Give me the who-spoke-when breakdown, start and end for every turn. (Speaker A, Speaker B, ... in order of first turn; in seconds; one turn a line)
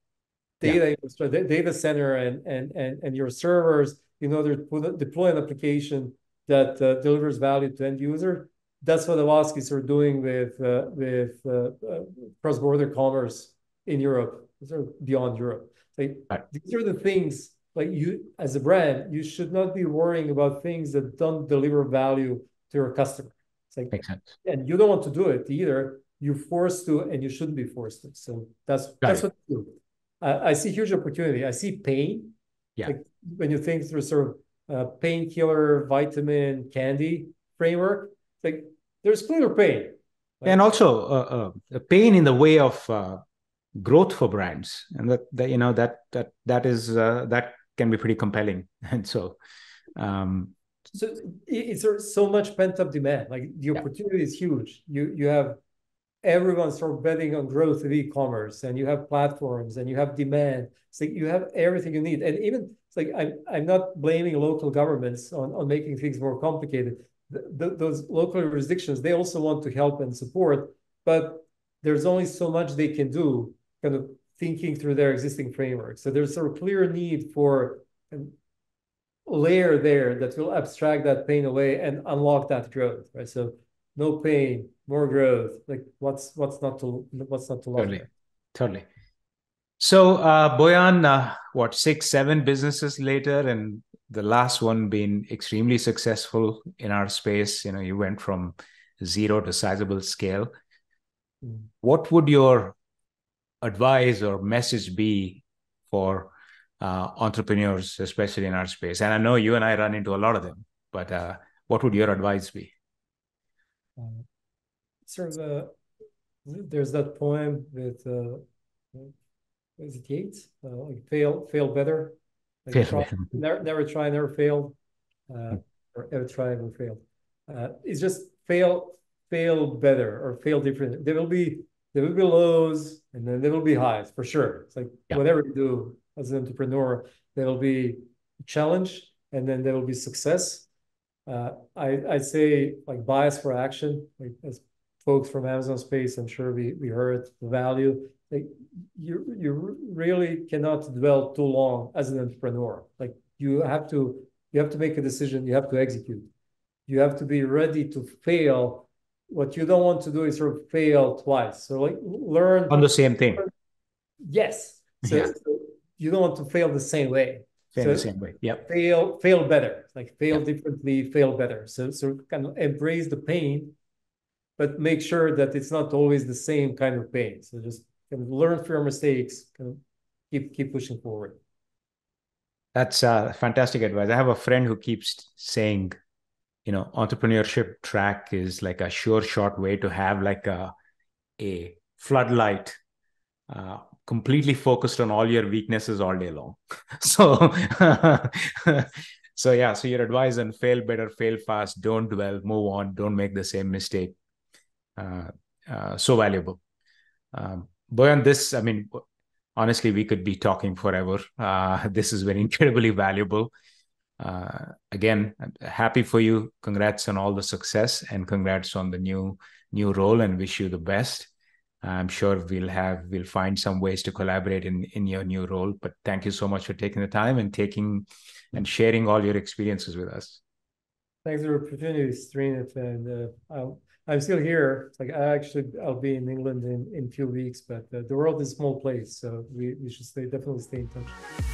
Speaker A: 0.6-32.3
Speaker B: 23.9-24.3
Speaker A: 32.8-40.7
Speaker B: 40.4-43.2
Speaker B: 43.8-49.4
Speaker B: 50.0-50.5
Speaker A: 50.9-55.6
Speaker A: 56.2-78.3
Speaker A: 79.3-88.1
Speaker B: 87.8-88.8
Speaker B: 89.8-100.5
Speaker B: 101.8-102.8
Speaker B: 103.6-112.7
Speaker A: 114.0-114.2
Speaker A: 115.1-115.7
Speaker A: 116.4-119.1
Speaker A: 119.8-124.8
Speaker B: 122.7-123.2
Speaker A: 125.3-140.7
Speaker A: 141.3-156.3
Speaker A: 156.9-163.5
Speaker B: 162.7-163.4
Speaker A: 164.2-173.7
Speaker B: 165.0-165.3
Speaker B: 167.7-168.6
Speaker A: 174.6-179.8
Speaker A: 180.3-181.4
Speaker B: 182.7-185.9
Speaker B: 186.6-190.7
Speaker B: 191.4-192.8
Speaker B: 193.5-204.2
Speaker B: 205.0-206.6
Speaker B: 207.3-209.0
Speaker B: 209.6-213.5
Speaker B: 214.2-221.3
Speaker B: 221.8-230.4
Speaker A: 231.2-241.2